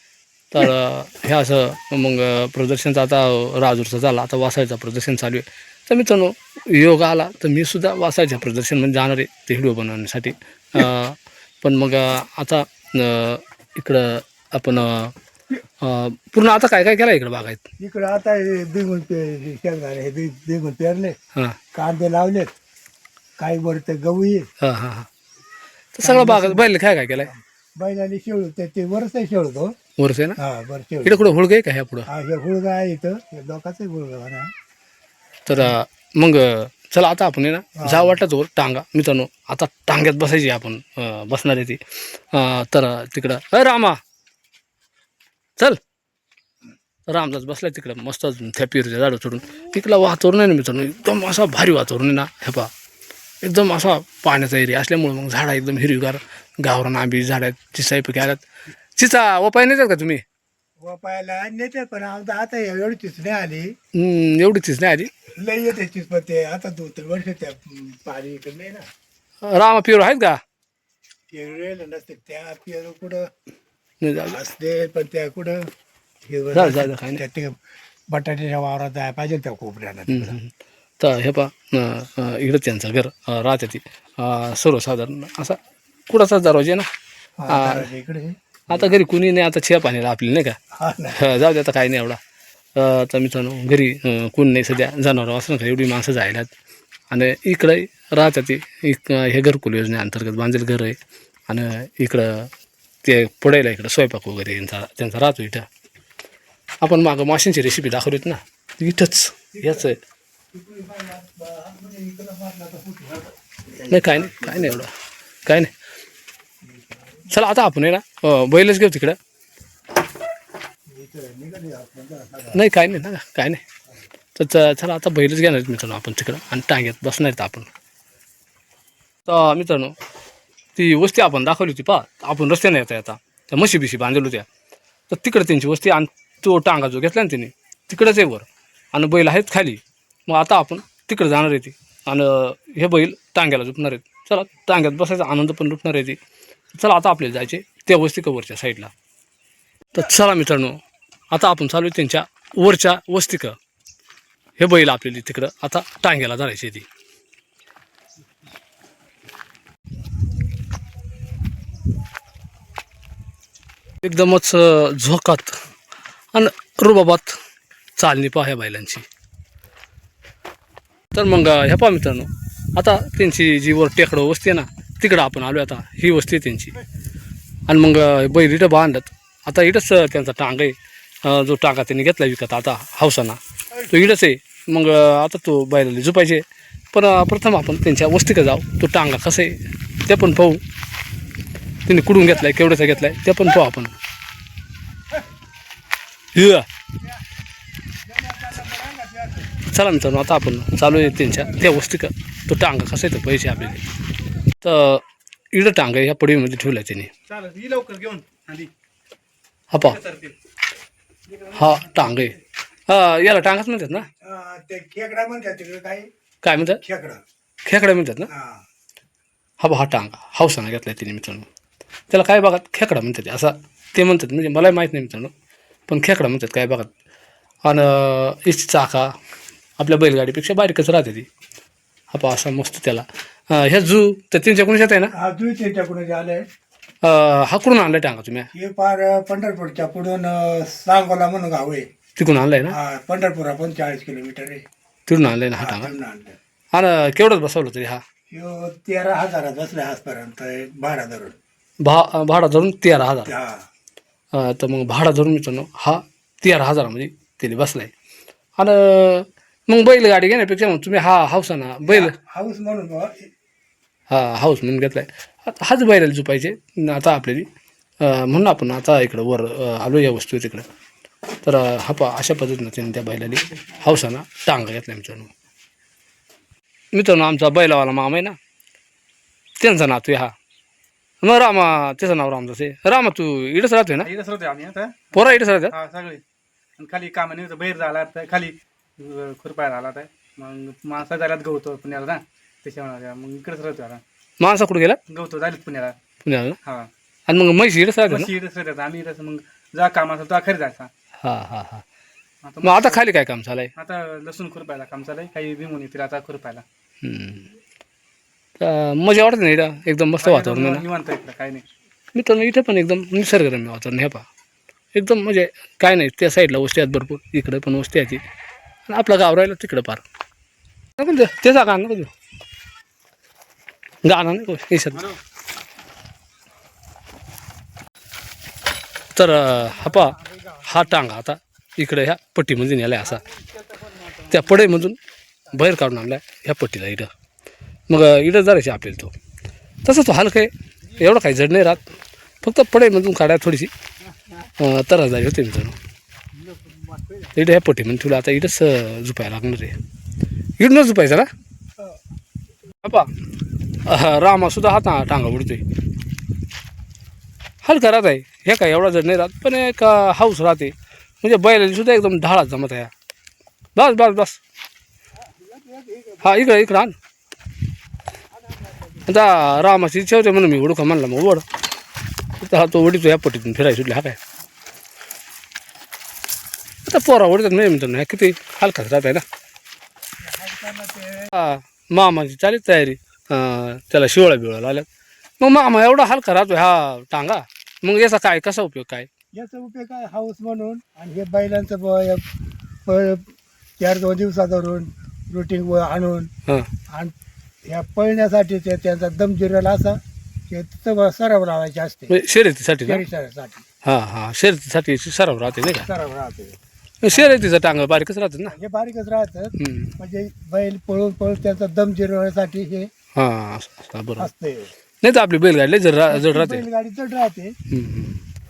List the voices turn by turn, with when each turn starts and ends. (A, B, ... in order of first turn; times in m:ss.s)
0:00.5-0:15.1 A
0:15.8-0:17.6 A
0:17.8-0:21.2 B
0:21.7-0:22.5 B
0:23.4-0:24.5 B
0:24.6-0:25.1 A
0:25.9-0:27.3 A
0:26.0-0:26.7 B
0:27.2-0:29.7 B
0:30.0-0:30.4 A
0:30.4-0:31.3 B
0:31.0-0:32.1 A
0:32.1-0:34.5 B
0:35.4-0:44.0 A
0:37.8-0:38.2 B
0:47.1-0:52.7 A
0:53.4-0:58.4 A
0:59.0-1:00.2 A
1:00.8-1:03.8 B
1:04.0-1:05.1 A
1:05.4-1:08.9 B
1:09.4-1:10.4 A
1:11.3-1:13.3 B
1:14.0-1:14.4 A
1:14.2-1:15.7 B
1:16.3-1:17.6 B
1:16.5-1:17.2 A
1:18.1-1:20.4 B
1:20.1-1:25.6 A
1:26.1-1:26.9 A
1:27.4-1:28.9 B
1:27.5-1:27.9 A
1:28.7-1:30.6 A
1:30.7-1:31.2 B
1:31.1-1:32.2 A
1:32.8-1:36.5 A
1:37.1-1:41.0 A
1:41.5-1:42.5 A
1:43.0-1:45.7 A
1:46.8-1:50.0 A
1:49.5-1:49.9 B
1:50.5-1:54.8 B
1:53.9-1:54.9 A
1:55.4-1:55.7 A
1:57.3-1:59.2 A
2:00.9-2:02.6 B
2:02.5-2:03.6 A
2:04.4-2:07.7 A
2:09.3-2:09.9 A
2:10.8-2:14.5 A
2:15.1-2:26.2 A
2:26.7-2:28.9 A
2:29.9-2:30.8 A
2:31.3-2:33.6 A
2:34.6-2:36.9 A
2:44.0-2:45.6 A
2:46.3-2:47.4 A
2:48.0-2:49.0 A
2:51.1-2:56.8 A
2:57.7-3:10.6 A
3:11.8-3:13.9 A
3:16.3-3:16.7 A
3:18.0-3:19.6 B
3:19.7-3:23.8 A
3:24.6-3:27.1 A
3:27.3-3:28.7 C
3:29.7-3:30.0 A
3:29.8-3:30.4 C
3:31.5-3:34.1 A
3:34.2-3:36.1 B
3:36.4-3:36.8 A
3:36.8-3:37.2 B
3:37.6-3:38.3 A
3:38.3-3:38.6 B
3:39.6-3:41.5 A
3:42.1-3:45.3 A
3:45.9-3:46.9 A
3:47.6-3:49.1 A
3:49.8-3:51.3 A
3:52.1-3:55.1 A
3:55.2-3:56.4 B
3:57.0-3:58.5 A
3:58.5-4:01.9 B
4:02.2-4:02.8 A
4:02.7-4:04.6 B
4:05.1-4:05.9 A
4:05.6-4:06.4 B
4:06.7-4:08.0 A
4:08.3-4:11.4 B
4:11.8-4:13.3 A
4:13.3-4:13.6 B
4:14.3-4:17.9 A
4:18.6-4:22.2 A
4:21.9-4:23.3 B
4:24.1-4:27.5 A
4:28.0-4:30.7 A
4:31.4-4:35.3 A
4:36.9-4:38.4 A
4:39.6-4:40.3 A
4:41.2-4:44.1 A
4:44.0-4:46.2 C
4:45.1-4:45.8 A
4:46.8-4:54.0 C
4:54.4-4:55.0 A
4:55.1-4:56.0 C
4:56.2-4:56.6 A
4:57.3-4:58.3 A
4:58.1-5:00.9 C
5:01.2-5:01.8 A
5:02.4-5:03.0 C
5:02.6-5:03.7 A
5:03.8-5:06.6 C
5:07.0-5:07.5 A
5:08.6-5:10.8 A
5:10.2-5:11.6 C
5:12.1-5:14.2 A
5:14.9-5:18.2 A
5:18.9-5:20.0 A
5:21.0-5:22.1 A
5:24.0-5:25.1 A
5:29.2-5:33.2 A
5:29.8-5:30.8 C
5:33.1-5:34.7 C
5:34.3-5:35.0 A
5:35.5-5:37.1 A
5:37.9-5:39.1 A
5:39.8-5:41.8 A
5:42.4-5:43.7 A
5:44.6-5:45.8 A
5:47.4-5:49.8 A
5:50.6-5:51.3 A
5:52.8-5:53.1 A
5:53.8-5:55.6 A
5:57.6-6:02.9 A
6:03.8-6:04.4 A
6:05.2-6:06.7 B
6:06.2-6:07.0 A
6:08.3-6:09.1 B
6:09.1-6:11.4 A
6:12.4-6:14.2 A
6:16.9-6:19.2 A
6:20.2-6:21.3 B
6:21.3-6:24.9 A
6:25.4-6:29.1 A
6:29.3-6:32.2 B
6:32.8-6:36.3 B
6:36.9-6:37.2 B
6:37.7-6:42.1 B
6:42.1-6:43.0 A
6:42.8-6:43.6 B
6:43.8-6:45.9 A
6:45.7-6:46.6 B
6:47.0-6:48.6 A
6:48.5-6:52.9 B
6:49.6-6:49.9 A
6:53.2-6:54.3 A
6:54.2-6:54.7 B
6:55.0-6:56.6 A
6:56.1-6:57.6 B
6:57.7-6:58.2 A